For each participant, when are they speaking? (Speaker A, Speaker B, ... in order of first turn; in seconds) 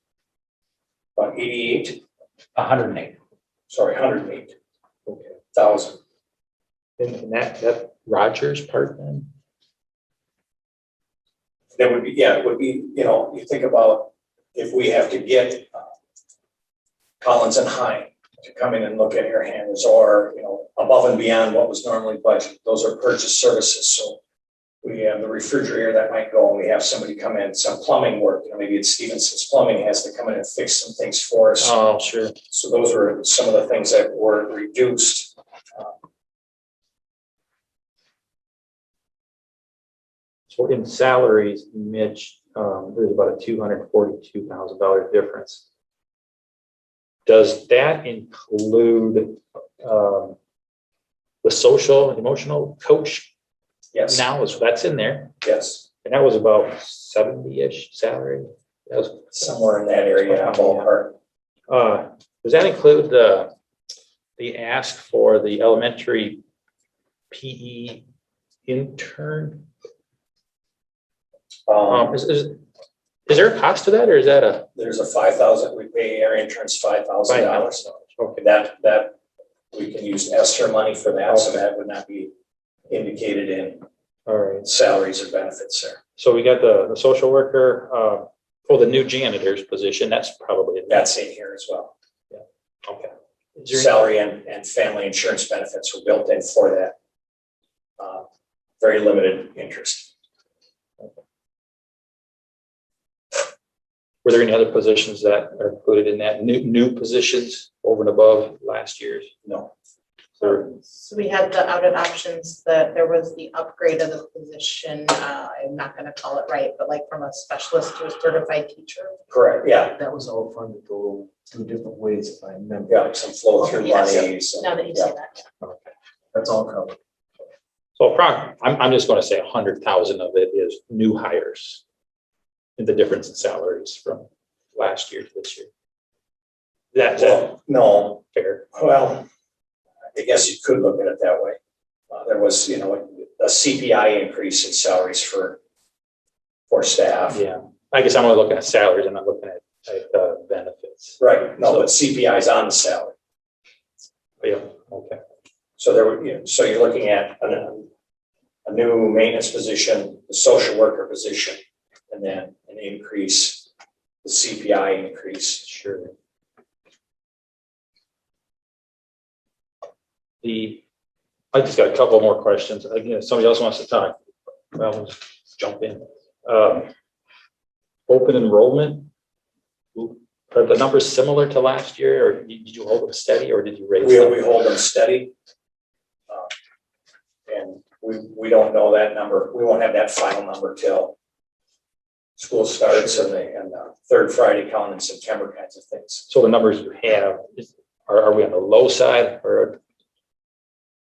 Speaker A: 1.2-2.0, 3.7-4.5, 5.5-6.0, 11.8-15.9, 17.2-24.2, 24.8-31.9, 32.5-35.9, 53.9-54.2, 55.4-55.9, 59.3-61.1, 71.7-72.2, 74.8-77.8, 78.4-79.2, 79.7-82.3, 82.9-83.8, 84.6-86.0, 90.9-91.9, 93.7-97.0, 98.0-98.3, 98.8-100.1, 109.5-109.7, 119.3-119.9, 122.9-125.1, 137.1-138.2, 138.7-139.3, 140.2-141.6, 142.1-145.6, 146.7-147.4, 151.2-153.1, 155.8-157.9, 158.7-161.6, 162.1-163.7, 164.2-165.6, 184.0-185.3, 187.5-191.2, 192.4-196.3
Speaker B: 2.5-3.2, 7.0-9.3, 31.6-32.4, 40.5-45.6, 47.3-50.4, 51.4-53.3, 54.1-55.3, 56.0-59.4, 60.2-60.9, 61.7-63.5, 64.4-66.4, 67.3-68.0, 68.7-69.7, 71.9-72.6, 73.3-74.7, 77.3-78.4, 81.3-81.5, 84.3-84.7, 86.2-91.1, 92.3-94.0, 104.2-109.3, 110.4-110.7, 128.0-131.8, 132.8-135.7, 136.9-137.6, 138.3-138.6, 147.3-151.9, 154.4-155.2, 165.6-166.1, 170.4-170.8, 171.5-174.2, 174.7-176.9, 178.1-179.1, 179.9-184.4, 196.3-199.8
Speaker C: 110.9-119.2, 123.6-125.4
Speaker D: 119.9-123.0, 126.3-127.0